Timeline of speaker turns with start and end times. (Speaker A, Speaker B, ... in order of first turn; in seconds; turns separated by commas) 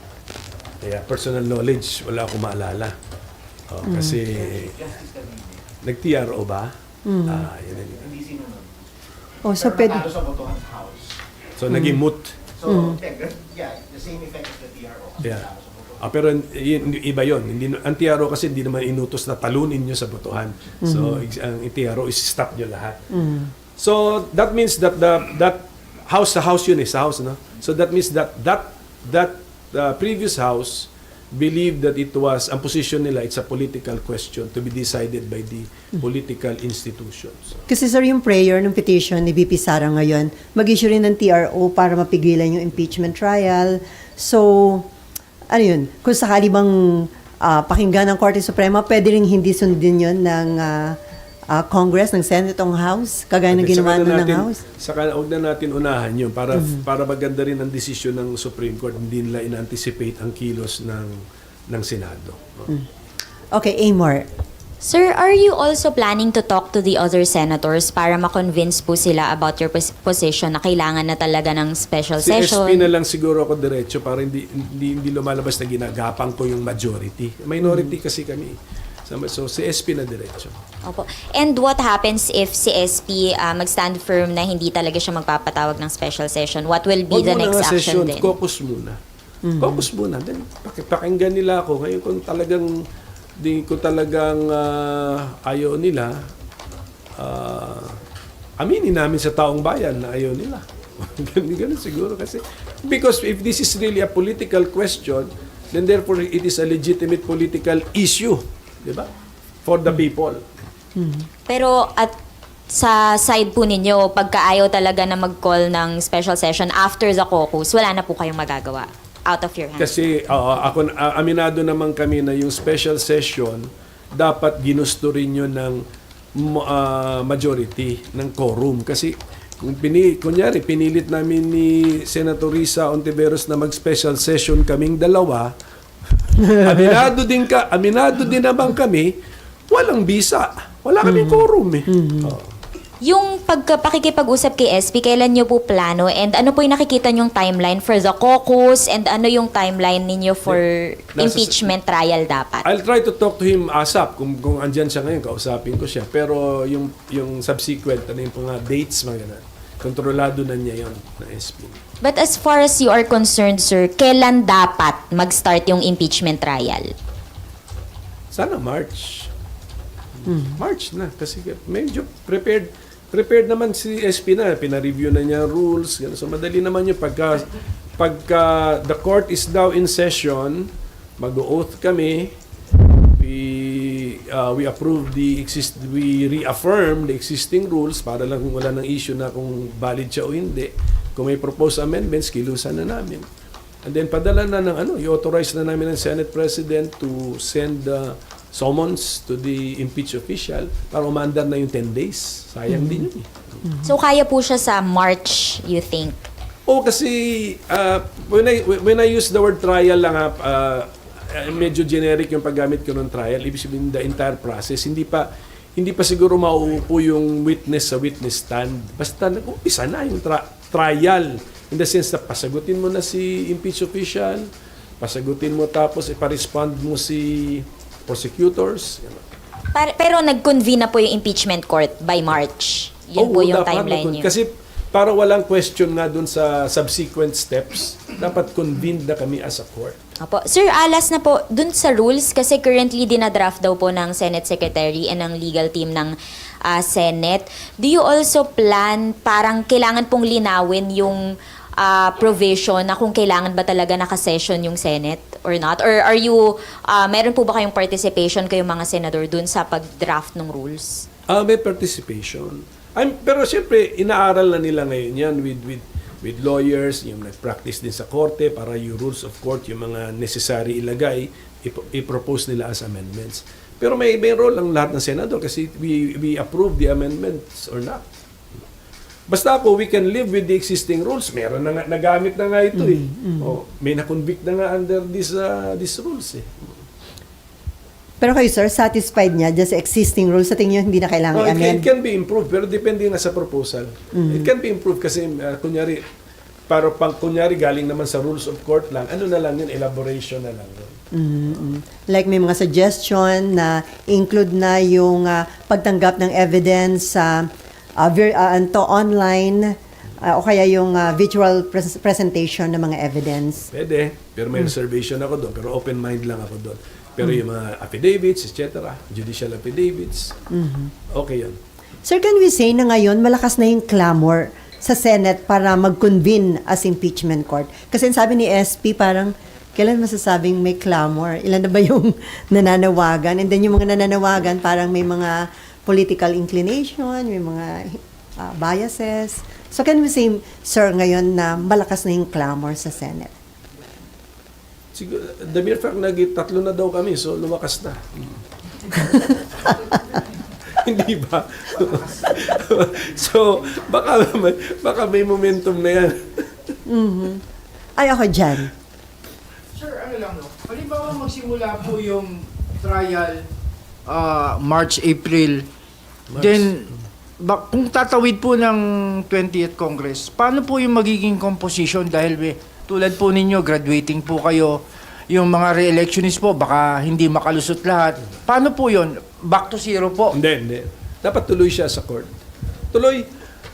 Speaker A: 0.8-2.9, Speaker A: 3.7-4.7, Speaker B: 3.8-4.2, Speaker C: 4.2-5.7, Speaker A: 5.8-6.7, Speaker B: 7.0-7.5, Speaker A: 7.2-8.0, Speaker C: 7.8-8.9, Speaker B: 9.4-10.1, Speaker C: 9.5-11.2, Speaker A: 11.6-12.3, Speaker B: 11.7-12.0, Speaker C: 12.5-16.0, Speaker B: 12.7-13.0, Speaker A: 15.2-15.5, Speaker A: 16.0-23.1, Speaker B: 20.8-21.2, Speaker B: 23.1-23.5, Speaker A: 23.8-37.6, Speaker B: 37.7-44.9, Speaker B: 45.5-51.0, Speaker B: 51.5-54.6, Speaker A: 53.5-62.6, Speaker B: 56.5-56.8, Speaker B: 63.5-64.2, Speaker D: 64.8-72.9, Speaker A: 72.2-78.5, Speaker B: 77.6-77.9, Speaker A: 79.1-80.5, Speaker D: 80.8-88.3, Speaker A: 87.1-89.0, Speaker B: 89.5-89.8, Speaker A: 89.6-92.7, Speaker A: 93.4-96.2, Speaker A: 97.2-98.0, Speaker A: 98.6-109.1, Speaker A: 109.6-110.4, Speaker B: 111.0-111.3, Speaker D: 111.5-112.1, Speaker D: 112.7-120.0, Speaker A: 119.8-125.8, Speaker A: 126.3-135.5, Speaker B: 136.4-137.0, Speaker A: 136.6-139.1, Speaker A: 139.7-142.5, Speaker B: 141.0-142.3, Speaker D: 143.0-152.7, Speaker A: 151.2-151.7, Speaker A: 152.6-161.8, Speaker D: 162.0-166.9, Speaker A: 168.3-169.3, Speaker B: 170.2-170.6, Speaker A: 170.6-182.3, Speaker A: 183.1-193.2, Speaker A: 193.8-203.3, Speaker B: 202.7-203.1, Speaker D: 203.8-206.2, Speaker A: 206.7-224.5, Speaker A: 225.0-229.2, Speaker D: 229.7-234.3, Speaker A: 233.2-240.0, Speaker D: 240.2-261.1, Speaker A: 261.3-278.2, Speaker A: 279.3-286.7, Speaker B: 282.7-283.6, Speaker B: 288.2-291.8, Speaker A: 291.3-296.0, Speaker B: 294.1-294.5, Speaker A: 296.7-301.0, Speaker B: 301.1-313.7, Speaker A: 313.7-320.3, Speaker B: 320.5-320.9, Speaker A: 321.1-321.6, Speaker B: 322.0-343.3, Speaker A: 344.9-350.0, Speaker B: 349.0-349.4, Speaker A: 350.7-356.7, Speaker B: 356.9-357.4, Speaker B: 358.0-358.7, Speaker E: 359.7-363.4, Speaker E: 364.1-365.7, Speaker A: 366.3-366.9, Speaker E: 366.3-380.4, Speaker A: 380.3-382.3, Speaker A: 382.9-383.3